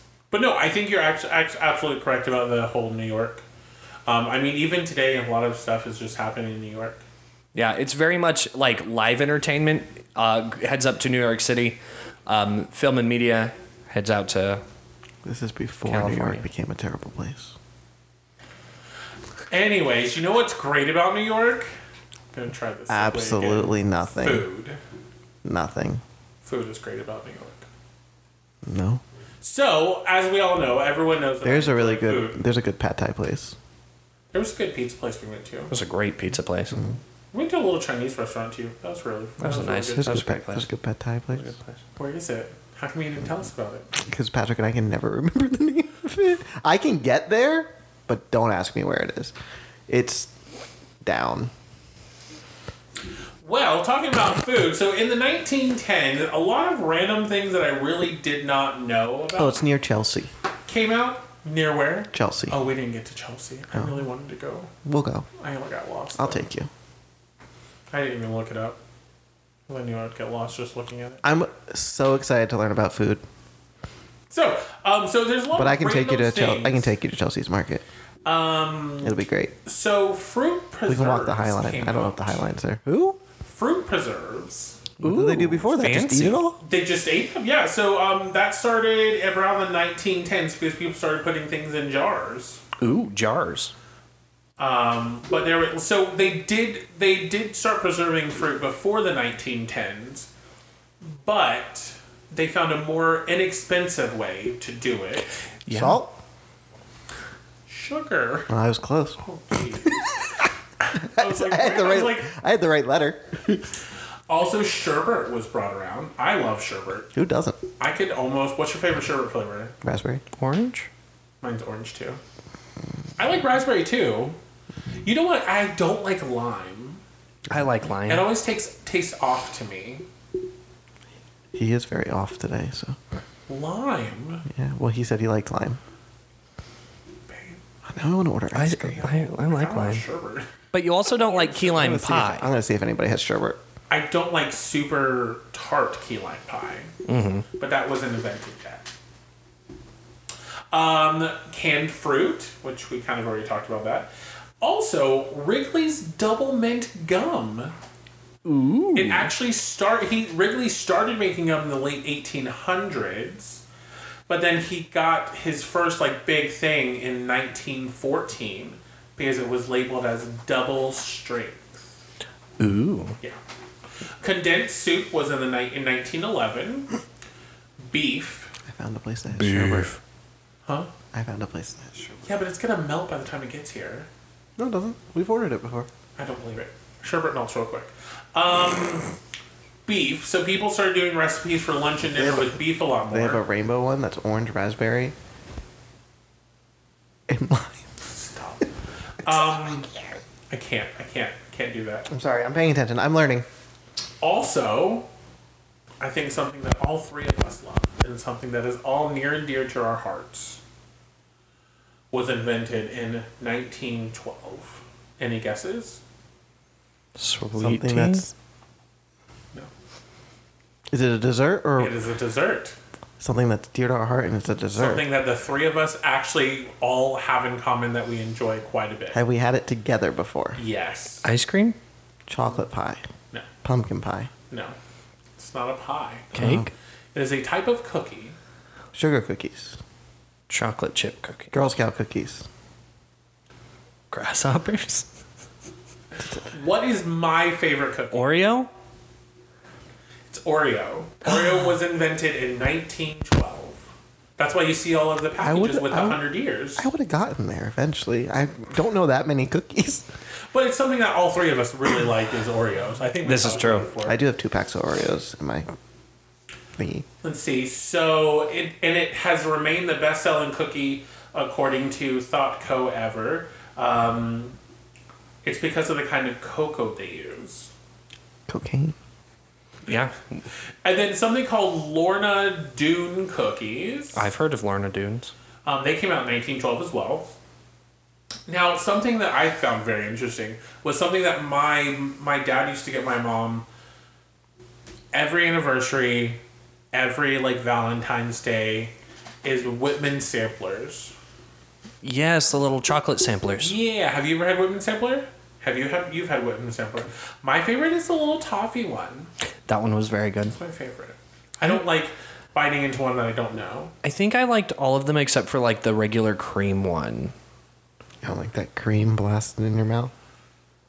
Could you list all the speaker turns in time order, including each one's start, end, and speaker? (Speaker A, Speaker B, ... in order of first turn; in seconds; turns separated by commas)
Speaker A: 0.3-3.4, Speaker A: 4.1-7.0, Speaker B: 7.5-14.6, Speaker C: 15.2-17.6, Speaker B: 15.9-16.4, Speaker A: 19.5-21.7, Speaker A: 22.3-24.8, Speaker C: 22.9-24.4, Speaker C: 25.4-26.0, Speaker A: 26.4-27.7, Speaker C: 28.6-29.0, Speaker A: 29.4-32.4, Speaker C: 31.4-33.6, Speaker A: 34.3-35.7, Speaker B: 35.7-36.8, Speaker A: 37.3-40.1, Speaker B: 39.4-40.7, Speaker C: 40.0-41.5, Speaker B: 41.4-41.8, Speaker A: 42.0-43.9, Speaker C: 43.9-49.4, Speaker C: 49.9-50.3, Speaker C: 51.0-51.5, Speaker A: 53.4-59.6, Speaker C: 59.4-60.3, Speaker A: 60.7-64.7, Speaker C: 62.1-62.6, Speaker C: 64.8-65.3, Speaker A: 65.4-66.4, Speaker C: 66.2-66.7, Speaker A: 67.9-68.8, Speaker A: 69.7-71.3, Speaker C: 71.2-73.2, Speaker A: 74.3-76.9, Speaker C: 75.5-77.8, Speaker A: 78.2-82.4, Speaker C: 79.0-79.5, Speaker C: 80.9-83.2, Speaker A: 83.4-84.8, Speaker B: 85.0-86.4, Speaker C: 85.0-86.6, Speaker A: 86.6-92.6, Speaker B: 92.8-93.7, Speaker A: 94.6-100.3, Speaker A: 101.0-105.3, Speaker B: 105.7-106.0, Speaker C: 105.7-106.2, Speaker A: 107.7-108.5, Speaker C: 108.5-109.2, Speaker A: 109.2-110.2, Speaker A: 110.9-112.3, Speaker C: 111.0-113.7, Speaker A: 114.3-117.1, Speaker C: 117.2-117.6, Speaker A: 117.8-119.8, Speaker C: 119.8-120.2, Speaker B: 120.4-120.9, Speaker A: 121.4-122.2, Speaker A: 123.2-124.4, Speaker A: 125.0-127.0, Speaker B: 127.5-128.3, Speaker A: 128.1-130.1, Speaker C: 131.5-133.0, Speaker A: 133.5-134.5, Speaker C: 134.5-135.8, Speaker A: 137.3-137.6, Speaker C: 137.9-139.1, Speaker B: 138.5-140.0, Speaker A: 139.0-140.5, Speaker B: 140.7-142.5, Speaker A: 141.1-142.0, Speaker C: 141.7-143.6, Speaker A: 143.9-146.9, Speaker B: 147.1-147.5, Speaker A: 147.6-148.9, Speaker A: 150.7-154.1, Speaker A: 154.6-157.8, Speaker B: 158.4-159.3, Speaker A: 158.9-163.6, Speaker A: 164.3-171.9, Speaker B: 172.6-173.2, Speaker A: 174.2-176.9, Speaker A: 177.9-178.5, Speaker C: 178.7-179.9, Speaker B: 179.3-180.0, Speaker C: 181.1-182.3, Speaker A: 182.2-184.1, Speaker C: 184.6-185.9, Speaker A: 186.2-189.1, Speaker A: 189.9-193.4, Speaker C: 192.1-192.6, Speaker C: 193.1-195.2, Speaker C: 197.3-197.9, Speaker A: 198.1-198.7, Speaker A: 199.2-199.9, Speaker A: 200.5-202.1, Speaker C: 202.1-203.5, Speaker A: 204.2-205.1, Speaker A: 206.0-210.6, Speaker A: 212.1-216.0, Speaker B: 217.2-218.3, Speaker C: 217.6-218.3, Speaker C: 220.9-222.0, Speaker A: 221.8-222.8, Speaker C: 223.2-225.1, Speaker A: 224.8-229.2, Speaker C: 229.1-230.6, Speaker A: 230.6-231.3, Speaker B: 231.2-231.8, Speaker C: 232.3-233.0, Speaker C: 233.6-234.3, Speaker A: 234.5-234.8, Speaker A: 235.4-236.3, Speaker B: 236.3-236.7, Speaker C: 236.3-236.7, Speaker A: 237.1-238.4, Speaker C: 238.9-239.8, Speaker B: 240.5-241.6, Speaker C: 241.5-242.5, Speaker B: 244.1-245.1, Speaker A: 246.3-248.4, Speaker B: 248.1-248.7, Speaker A: 250.3-253.8, Speaker A: 254.4-256.9, Speaker C: 255.4-256.2, Speaker C: 256.8-260.1, Speaker A: 260.5-264.2, Speaker B: 263.2-263.9, Speaker C: 264.1-265.7, Speaker C: 266.8-267.1, Speaker A: 267.2-274.6, Speaker A: 275.4-277.7, Speaker C: 278.5-278.9, Speaker B: 279.9-280.1, Speaker A: 280.8-284.3, Speaker B: 284.1-285.3, Speaker A: 285.6-287.3, Speaker A: 288.5-293.7, Speaker A: 295.1-296.4, Speaker A: 296.9-301.1, Speaker B: 302.0-303.8, Speaker A: 303.6-309.3, Speaker B: 309.7-310.6, Speaker A: 310.5-313.9, Speaker B: 314.0-317.3, Speaker C: 318.2-320.1